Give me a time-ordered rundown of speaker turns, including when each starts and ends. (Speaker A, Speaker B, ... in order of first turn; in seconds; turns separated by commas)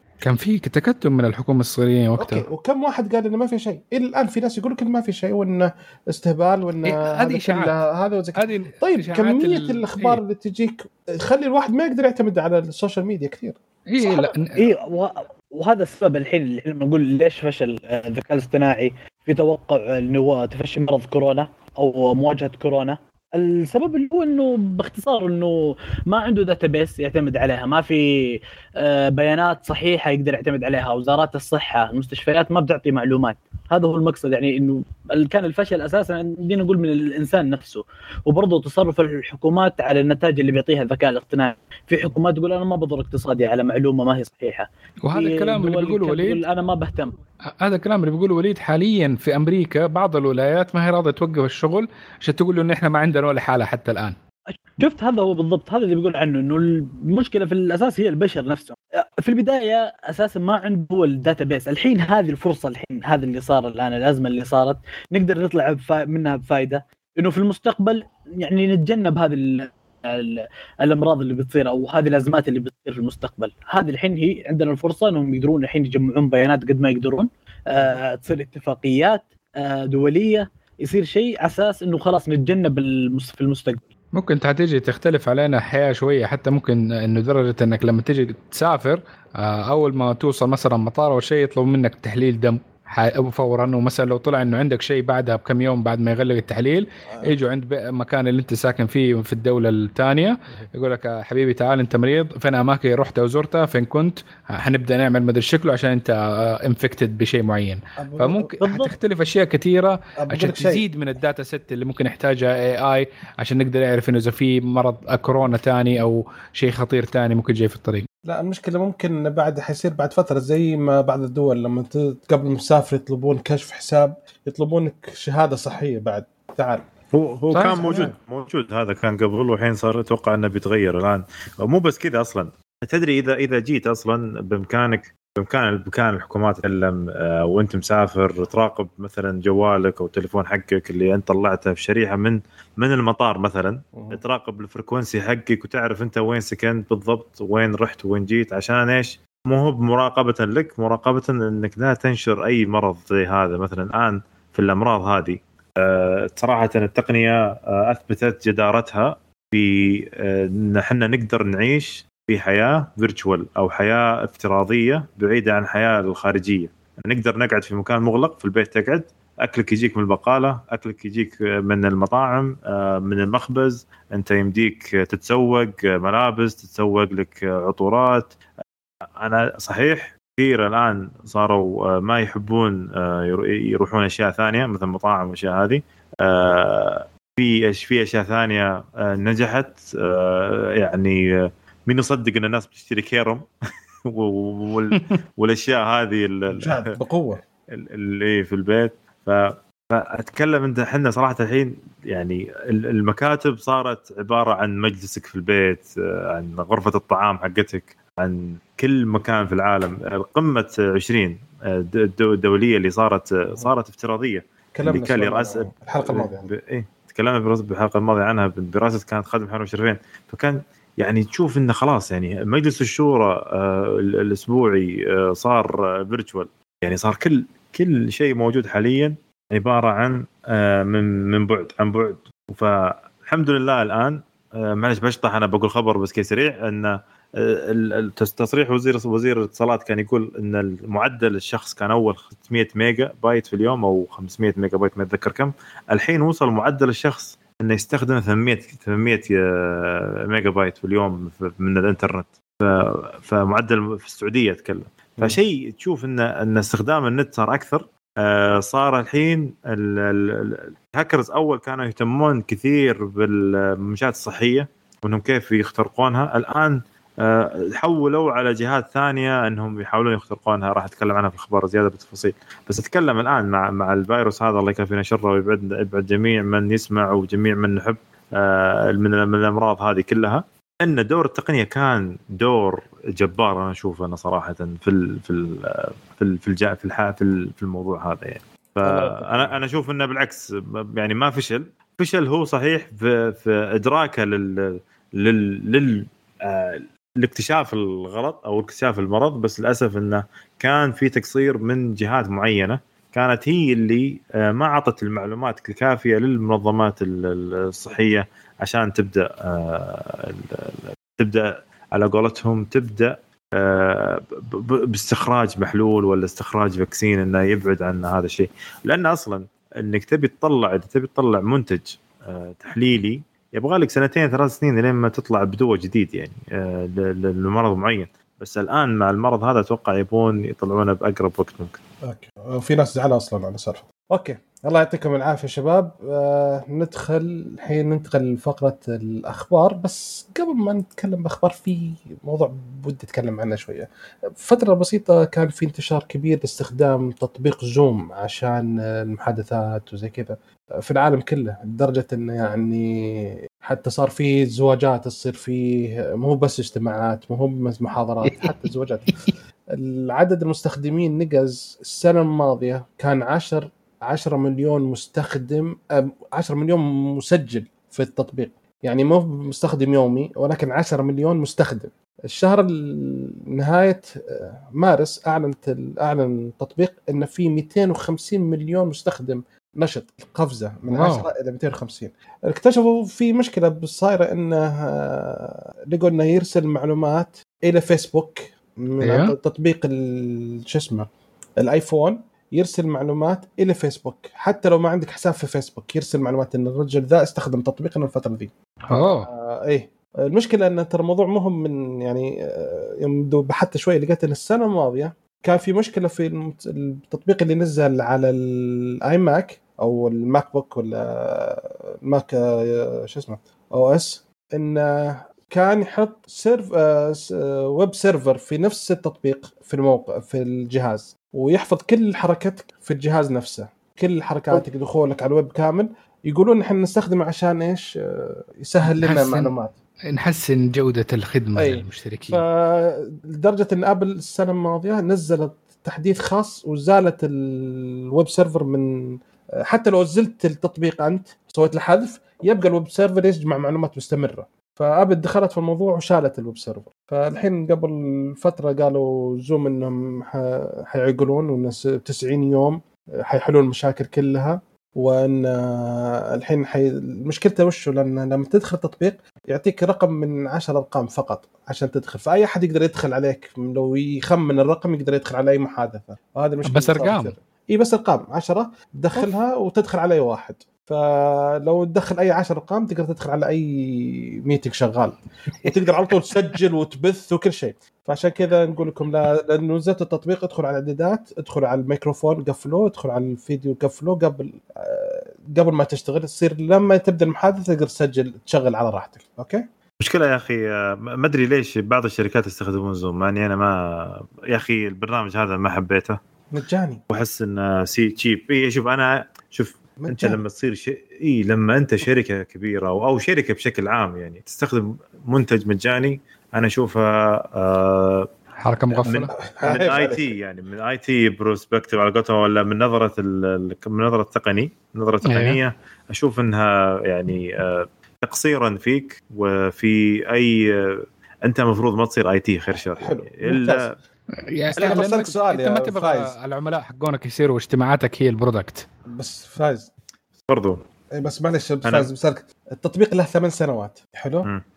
Speaker A: 0.2-2.5, Speaker B: 2.2-13.6, Speaker A: 6.8-7.7, Speaker A: 8.4-10.2, Speaker A: 13.9-14.7, Speaker C: 14.6-47.1, Speaker A: 45.0-46.4, Speaker A: 47.6-54.1, Speaker C: 54.5-83.8, Speaker A: 84.2-118.1, Speaker B: 108.0-108.9, Speaker B: 110.2-110.8, Speaker B: 118.3-126.9, Speaker D: 127.1-178.3, Speaker A: 127.5-128.1, Speaker B: 127.7-128.1, Speaker D: 179.2-193.4, Speaker D: 194.1-196.9, Speaker B: 196.5-197.4, Speaker D: 197.7-331.8, Speaker B: 214.8-216.5, Speaker B: 288.8-289.6, Speaker B: 332.0-359.2, Speaker A: 358.2-358.6, Speaker B: 359.7-391.1, Speaker A: 380.9-381.3, Speaker A: 389.0-389.3, Speaker B: 391.6-429.7, Speaker A: 398.9-399.3, Speaker A: 429.0-429.5, Speaker A: 430.1-432.4, Speaker B: 431.6-489.6, Speaker A: 466.6-467.3, Speaker D: 490.0-496.2, Speaker B: 496.5-497.0, Speaker D: 497.1-508.3, Speaker B: 500.0-500.4, Speaker A: 508.6-509.3, Speaker D: 509.0-523.9, Speaker B: 509.4-510.3, Speaker A: 515.2-515.6, Speaker B: 523.0-524.0, Speaker A: 524.5-528.8, Speaker B: 524.8-526.3, Speaker B: 529.1-529.9, Speaker D: 530.5-530.8, Speaker B: 531.1-534.5